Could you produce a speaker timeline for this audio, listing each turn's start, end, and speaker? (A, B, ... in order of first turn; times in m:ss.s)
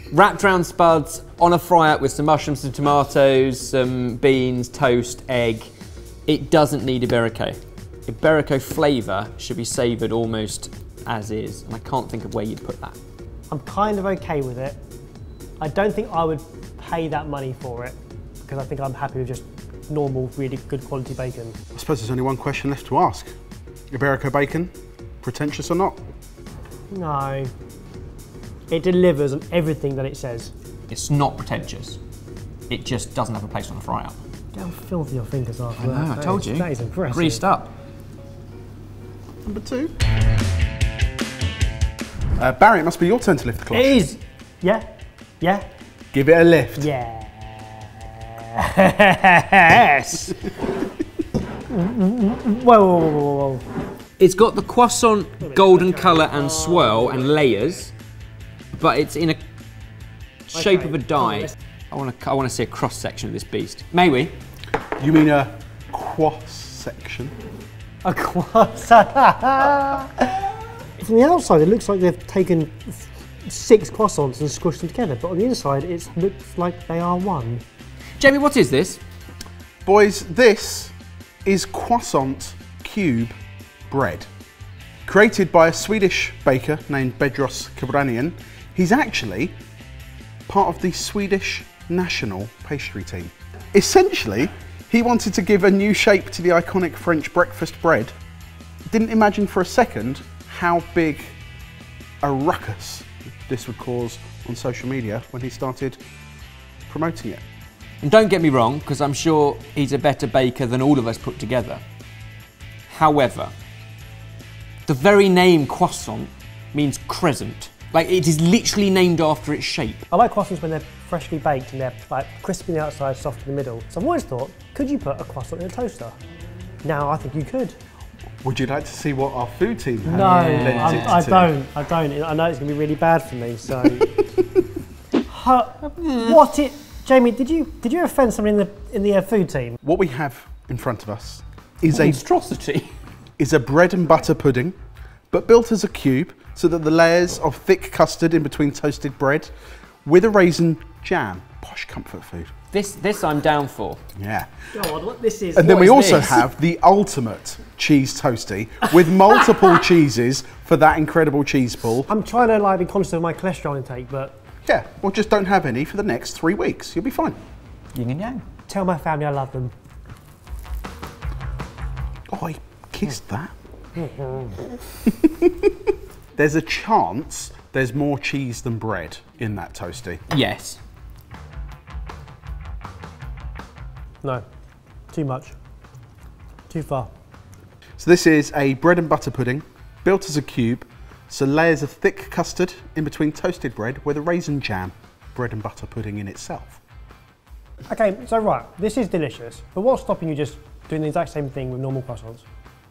0:00.1-0:05.7 A
0:06.3-0:13.0 A
0:13.5-0:14.8 B
0:15.6-0:21.6 B
0:21.7-0:23.3 C
0:23.9-0:26.0 C
0:26.9-0:27.5 B
0:28.7-0:30.5 B
0:30.9-0:32.0 A
0:32.7-0:34.2 A
0:34.5-0:37.4 B
0:35.8-0:37.7 A
0:39.4-0:39.9 C
0:42.4-0:44.0 C
0:43.7-0:44.9 B
0:46.1-0:46.9 C
0:46.8-0:50.7 B
0:51.7-0:53.6 B
0:54.2-0:57.9 A
0:55.4-0:57.3 B
0:58.8-0:59.4 A
1:00.5-1:04.4 A
1:05.0-1:07.3 C
1:08.0-1:10.3 B
1:11.0-1:17.6 B
1:18.2-1:19.0 A
1:19.8-1:20.9 C
1:21.4-1:23.4 C
1:23.9-1:24.3 C
1:25.1-1:29.5 C
1:30.5-1:38.1 C
1:38.9-1:41.4 C
1:42.2-1:46.0 C
1:46.9-1:47.4 C
1:48.0-1:51.8 A
1:52.9-1:53.5 A
1:54.9-2:00.1 A
2:00.1-2:06.2 B
2:06.8-2:07.8 B
2:08.4-2:11.5 C
2:10.0-2:14.1 B
2:10.2-2:11.2 A
2:15.3-2:19.8 B
2:16.0-2:16.4 A
2:19.8-2:22.2 C
2:21.9-2:22.9 A
2:23.4-2:24.8 C
2:25.3-2:29.5 C
2:30.0-2:32.5 C
2:32.7-2:34.0 A
2:34.2-2:34.5 C
2:34.7-2:36.5 B
2:35.6-2:42.1 C
2:35.9-2:36.4 A
2:42.1-2:44.4 B
2:44.6-2:47.4 C
2:47.9-2:48.4 A
2:48.7-2:49.7 B
2:52.3-2:53.5 C
2:55.2-2:55.5 C
2:56.4-3:00.2 C
3:00.3-3:00.8 A
3:05.1-3:05.6 B
3:06.7-3:07.1 B
3:08.0-3:16.8 C
3:17.9-3:22.4 B